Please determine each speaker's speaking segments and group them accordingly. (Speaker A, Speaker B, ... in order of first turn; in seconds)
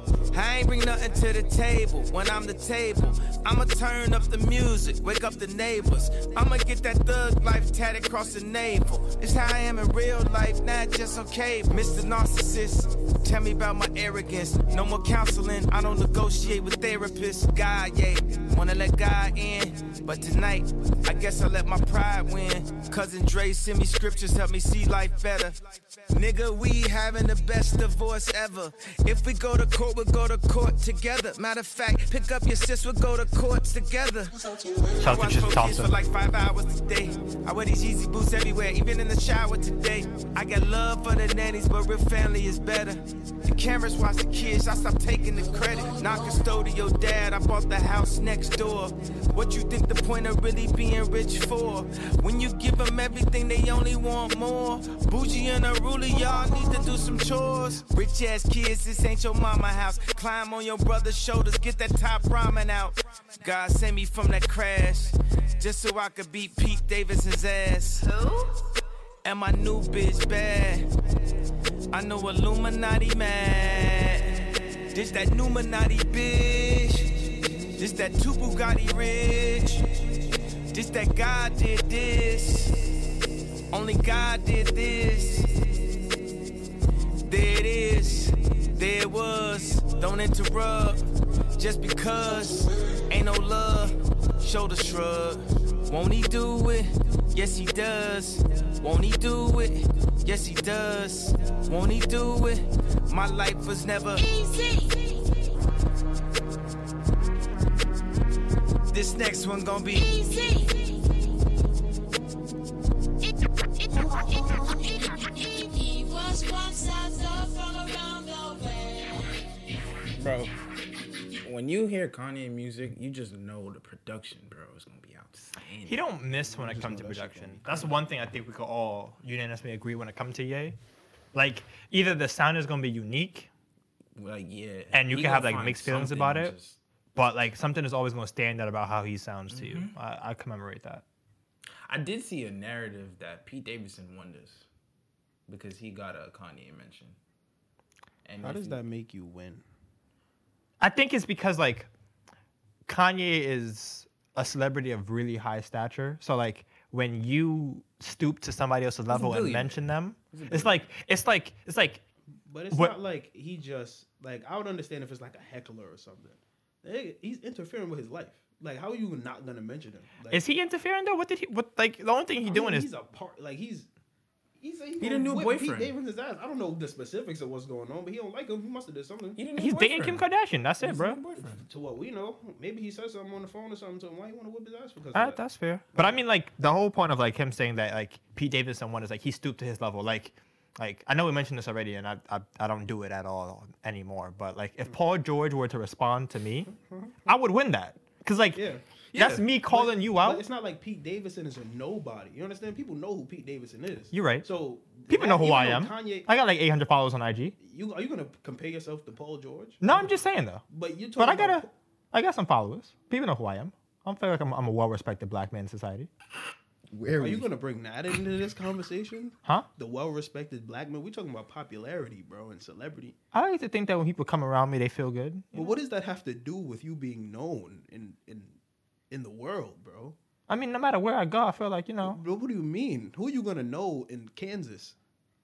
Speaker A: 0.3-34.4, 35.0-68.2, 69.2-70.9, 71.9-80.2, 80.7-82.9, 83.7-85.7, 87.2-91.0, 91.6-104.2, 108.9-110.0
Speaker B: 35.0-36.0, 125.8-130.8, 131.3-133.5, 134.9-136.5, 137.2-141.0, 150.8-151.9, 152.9-162.0, 170.3-172.9, 179.6-181.2, 185.1-196.7, 197.2-198.6, 199.1-200.4, 204.1-204.5, 205.1-207.6, 209.8-210.6, 211.2-216.1, 223.3-225.8, 230.5-232.2
Speaker C: 104.1-105.3, 109.9-111.1, 114.0-119.3
Speaker D: 120.1-120.5, 121.3-126.0, 134.2-136.8, 139.5-139.9, 141.8-144.7, 145.5-147.2, 148.2-148.8, 159.1-160.8, 175.0-175.9, 179.3-180.2, 180.8-181.6, 199.1-199.5, 216.9-217.5
Speaker E: 126.5-127.9, 148.4-149.6, 162.4-170.4, 172.4-173.9, 174.6-179.4, 181.4-185.4, 196.7-197.3, 198.5-198.8, 199.7-206.3, 207.6-210.1, 210.7-211.7, 217.2-223.2, 225.5-228.6, 229.1-230.2, 232.0-234.9